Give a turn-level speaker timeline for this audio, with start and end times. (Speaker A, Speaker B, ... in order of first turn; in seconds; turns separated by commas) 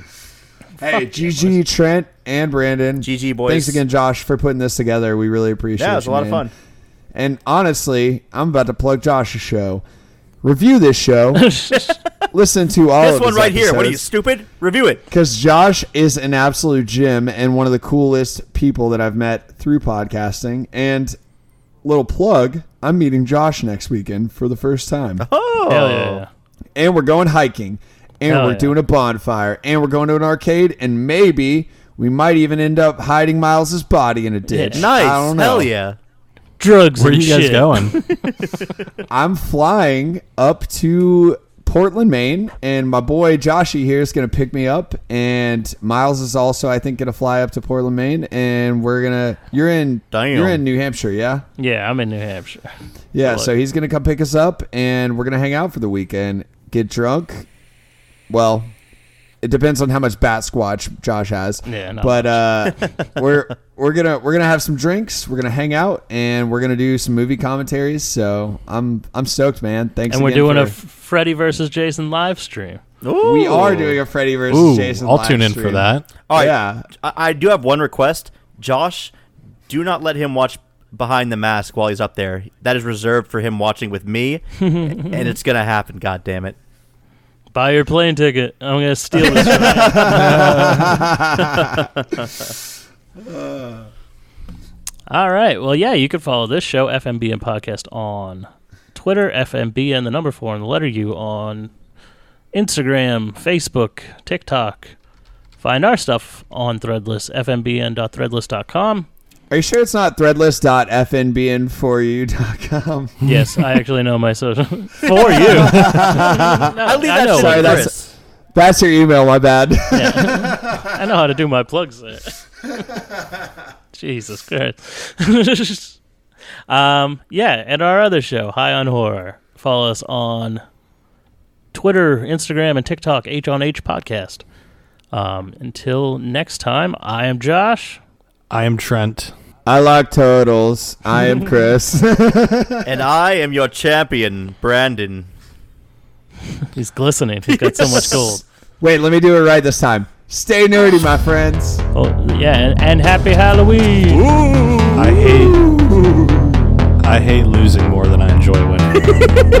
Speaker A: 0.8-6.5, Speaker B: 0.9-1.5, Speaker C: 3.0-3.8, Speaker C: 5.8-6.5, Speaker A: 7.1-9.8, Speaker A: 10.4-11.6, Speaker B: 11.3-11.9, Speaker A: 12.3-14.1, Speaker C: 13.0-15.0, Speaker A: 15.1-21.2, Speaker A: 21.8-25.2, Speaker C: 25.2-26.2, Speaker B: 25.7-26.3, Speaker A: 26.8-35.7, Speaker B: 28.2-28.8, Speaker B: 34.5-34.8, Speaker C: 34.7-36.0, Speaker B: 36.6-38.1, Speaker D: 37.0-38.0, Speaker A: 39.1-51.4, Speaker C: 50.1-50.6, Speaker B: 51.6-52.7, Speaker A: 53.1-57.5, Speaker A: 58.3-58.7, Speaker A: 59.4-70.7, Speaker B: 61.6-62.4, Speaker C: 62.8-63.1, Speaker B: 70.1-72.8, Speaker C: 73.0-74.0, Speaker A: 73.2-76.9, Speaker D: 74.5-76.1, Speaker C: 76.3-79.1, Speaker C: 79.7-86.5, Speaker B: 84.6-85.1, Speaker B: 87.5-91.1, Speaker C: 89.4-90.0, Speaker A: 89.6-91.9, Speaker C: 91.6-92.3, Speaker A: 93.3-93.6, Speaker B: 95.1-101.7, Speaker B: 102.5-105.0, Speaker B: 105.6-109.1, Speaker A: 109.5-113.2, Speaker B: 113.2-117.9, Speaker D: 113.2-113.5, Speaker A: 115.3-116.6, Speaker C: 115.3-118.1, Speaker A: 117.3-117.9, Speaker A: 118.5-120.7, Speaker B: 119.9-122.4, Speaker B: 123.9-126.0, Speaker B: 126.7-130.6, Speaker B: 131.7-134.4, Speaker B: 135.1-138.0, Speaker D: 138.5-139.3, Speaker A: 139.7-142.9, Speaker C: 142.8-145.3, Speaker B: 146.7-148.4, Speaker C: 147.5-148.3, Speaker A: 148.8-151.8, Speaker B: 151.9-154.2, Speaker C: 154.1-155.2, Speaker D: 155.0-155.7, Speaker A: 155.1-156.7, Speaker D: 157.0-159.1